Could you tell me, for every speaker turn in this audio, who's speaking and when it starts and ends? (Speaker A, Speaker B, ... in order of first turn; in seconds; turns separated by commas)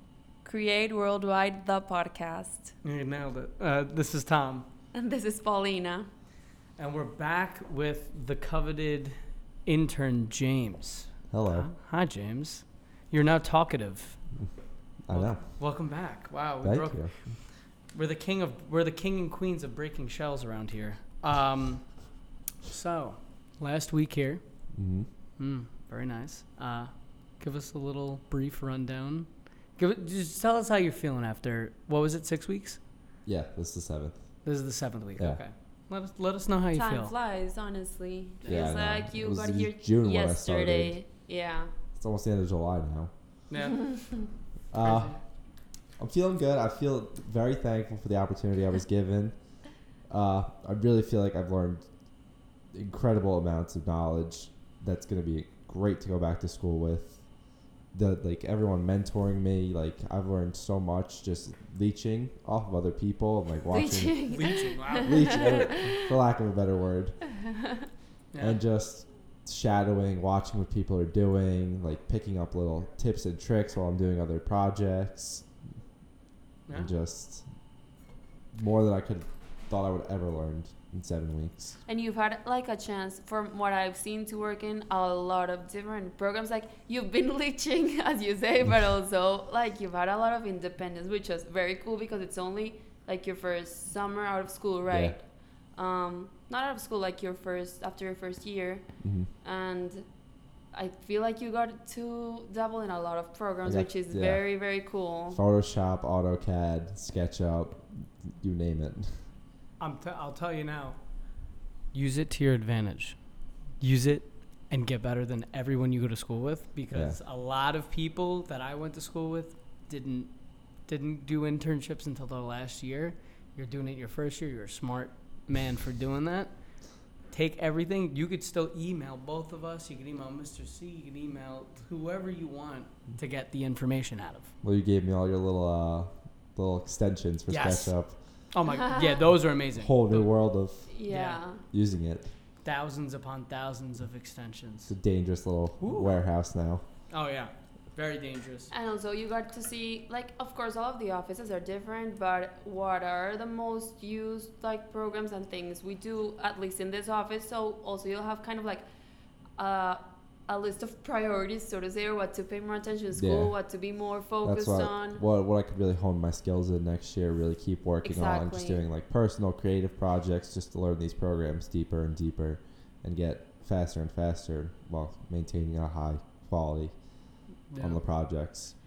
Speaker A: 0.4-2.7, Speaker B: 2.8-4.7, Speaker A: 4.9-6.1, Speaker B: 6.8-9.1, Speaker B: 9.7-14.2, Speaker C: 11.3-11.7, Speaker C: 15.1-15.4, Speaker B: 15.1-17.1, Speaker C: 16.6-17.1, Speaker B: 17.9-21.9, Speaker B: 22.6-24.4, Speaker C: 24.7-25.1, Speaker B: 25.4-32.8, Speaker C: 33.2-34.2, Speaker B: 34.5-37.1, Speaker A: 36.7-41.7, Speaker B: 38.4-38.7, Speaker C: 38.5-41.0, Speaker C: 42.0-43.1, Speaker B: 43.5-44.1, Speaker A: 43.6-44.2, Speaker C: 44.7-45.1, Speaker B: 44.8-45.2, Speaker C: 46.0-49.4, Speaker C: 50.1-51.9, Speaker C: 52.7-57.2, Speaker C: 57.9-64.3, Speaker A: 63.7-66.0, Speaker B: 64.3-65.7, Speaker C: 65.0-67.2, Speaker A: 67.4-67.8, Speaker B: 68.3-68.6, Speaker C: 68.4-75.5, Speaker C: 76.7-77.4, Speaker C: 78.5-81.5, Speaker A: 81.8-95.2, Speaker C: 94.9-95.2, Speaker A: 95.8-98.9, Speaker C: 99.0-99.3, Speaker A: 99.4-100.1, Speaker A: 100.7-105.4, Speaker C: 103.7-104.4, Speaker C: 105.3-109.2, Speaker B: 109.8-111.0, Speaker B: 111.9-113.2, Speaker B: 113.8-120.3, Speaker C: 116.9-117.2, Speaker B: 120.9-126.5, Speaker B: 127.3-134.5, Speaker C: 134.6-138.2, Speaker B: 137.5-140.3, Speaker C: 139.7-140.9, Speaker A: 140.9-141.6, Speaker B: 141.1-141.4, Speaker C: 141.7-142.3, Speaker B: 142.6-144.9, Speaker C: 144.9-146.8, Speaker B: 145.8-146.2, Speaker B: 147.1-148.7, Speaker A: 148.7-158.8, Speaker A: 159.6-165.2, Speaker C: 163.1-163.6, Speaker C: 164.4-178.8, Speaker A: 168.0-168.8, Speaker B: 177.7-178.0